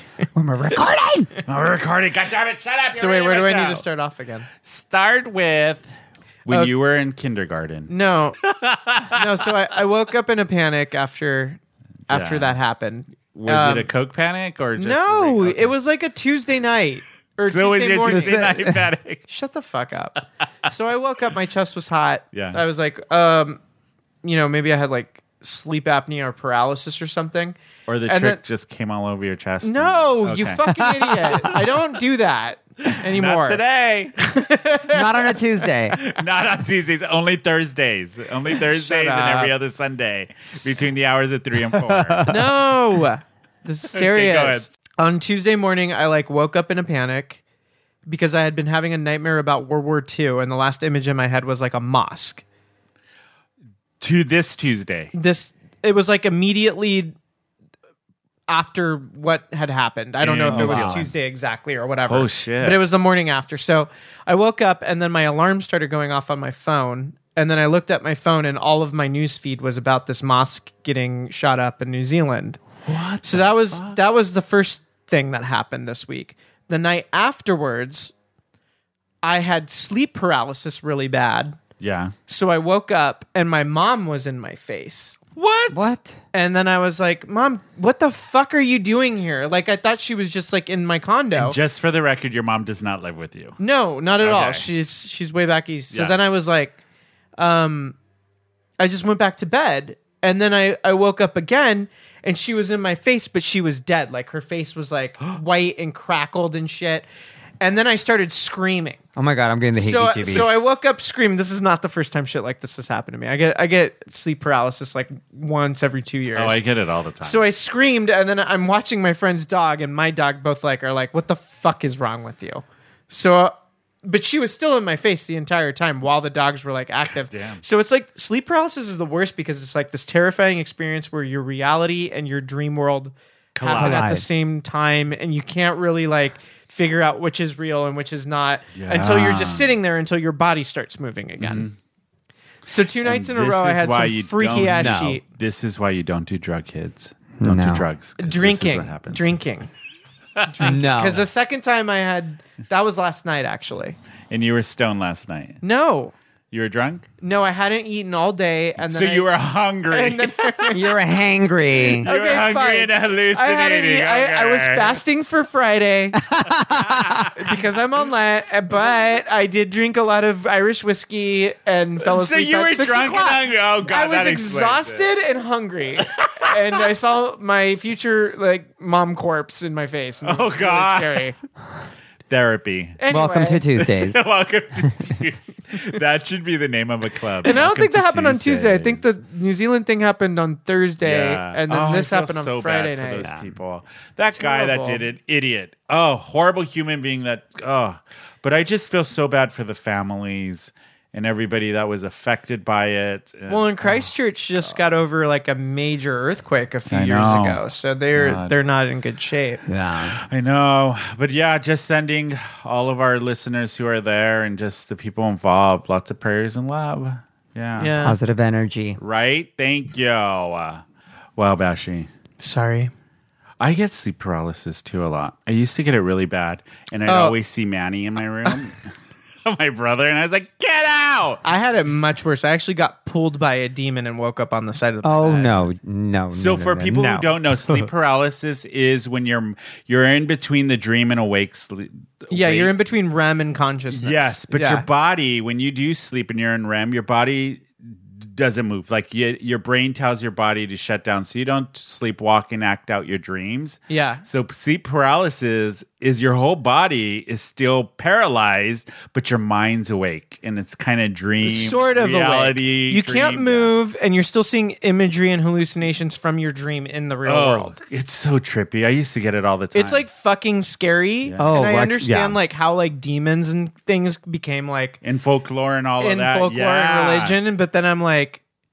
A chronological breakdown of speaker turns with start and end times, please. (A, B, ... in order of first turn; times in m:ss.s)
0:00.3-0:01.4 A
0:01.4-0:03.8 B
0:02.9-0:04.5 C
0:04.6-0:05.9 B
0:06.4-0:09.5 B
0:07.9-0:08.4 C
0:09.0-0:13.9 C
0:12.1-0:12.6 B
0:13.3-0:15.7 B
0:14.8-0:18.5 C
0:17.4-0:19.2 B
0:18.0-0:18.8 A
0:19.3-0:23.6 C
0:22.3-0:22.6 B
0:24.2-0:28.4 C
0:27.9-0:31.6 B
0:29.6-0:33.6 C
0:32.8-0:34.2 B
0:34.2-0:35.3 C
0:34.9-0:36.0 A
0:35.9-0:42.3 B
0:38.6-0:39.5 C
0:41.9-0:42.4 A
0:42.2-0:47.4 C
0:43.9-0:44.7 B
0:48.0-0:52.4 C
0:54.0-0:55.1 B
0:55.1-0:57.1 C
0:58.5-1:12.6 C
1:00.2-1:01.1 B
1:00.5-1:01.1 A
1:02.1-1:02.8 B
1:12.8-1:14.0 B
1:13.2-1:18.1 C
1:19.2-1:21.6 C
1:21.8-1:22.1 B
1:22.3-1:25.2 C
1:25.4-1:25.9 B
1:25.7-1:26.2 A
1:26.3-1:31.6 C
1:31.3-1:33.6 B
1:33.6-1:36.8 C
1:34.2-1:34.7 B
1:35.9-1:36.2 B
1:37.4-1:38.0 C
1:38.8-1:47.0 C
1:47.6-1:49.0 C
1:49.2-1:50.5 A
1:49.7-1:56.6 C
1:56.3-1:57.4 B
1:57.2-2:21.7 C
2:07.1-2:07.6 B
2:13.5-2:14.2 B
2:13.8-2:14.2 A
2:18.7-2:19.7 B
2:21.4-2:21.7 B
2:22.6-2:25.2 C
2:23.0-2:29.4 B
2:24.7-2:25.2 A
2:27.4-2:27.8 A
2:28.2-2:29.7 C
2:30.4-2:30.7 B
2:30.4-2:34.0 C
2:30.6-2:31.2 A
2:34.3-2:35.6 B
2:35.6-2:36.1 C
2:36.5-2:37.1 B
2:37.2-2:39.3 C
2:38.8-2:40.8 B
2:39.9-2:40.9 C
2:40.7-2:42.1 A
2:41.8-2:45.0 B
2:42.0-2:46.2 C
2:46.1-2:47.3 A
2:46.8-2:47.3 B
2:47.3-3:01.3 C
2:52.0-2:55.1 B
2:56.0-2:56.5 B
3:00.2-3:01.2 B
3:02.3-3:03.0 B
3:03.0-3:03.6 C
3:03.1-3:04.2 A
3:03.7-3:09.0 B
3:07.4-3:13.3 C
3:11.0-3:24.1 B
3:14.3-3:15.0 C
3:23.5-3:29.6 C
3:26.9-3:27.6 B
3:28.1-3:28.5 B
3:29.7-3:30.2 A
3:30.2-3:38.0 B
3:37.8-3:38.2 C
3:38.0-3:39.0 A
3:39.0-3:40.8 B
3:41.4-3:42.1 B
3:42.4-3:42.9 C
3:43.6-3:48.9 B
3:47.0-3:47.3 C
3:49.4-3:51.4 B
3:51.4-3:55.7 C
3:55.0-3:57.9 A
3:56.3-4:02.7 B
4:02.3-4:04.9 C
4:03.9-4:23.7 B
4:13.9-4:14.2 C
4:21.4-4:27.8 C
4:27.2-4:30.0 B
4:29.7-4:35.0 C
4:31.4-4:32.4 A
4:35.0-4:37.4 B
4:36.0-4:38.4 C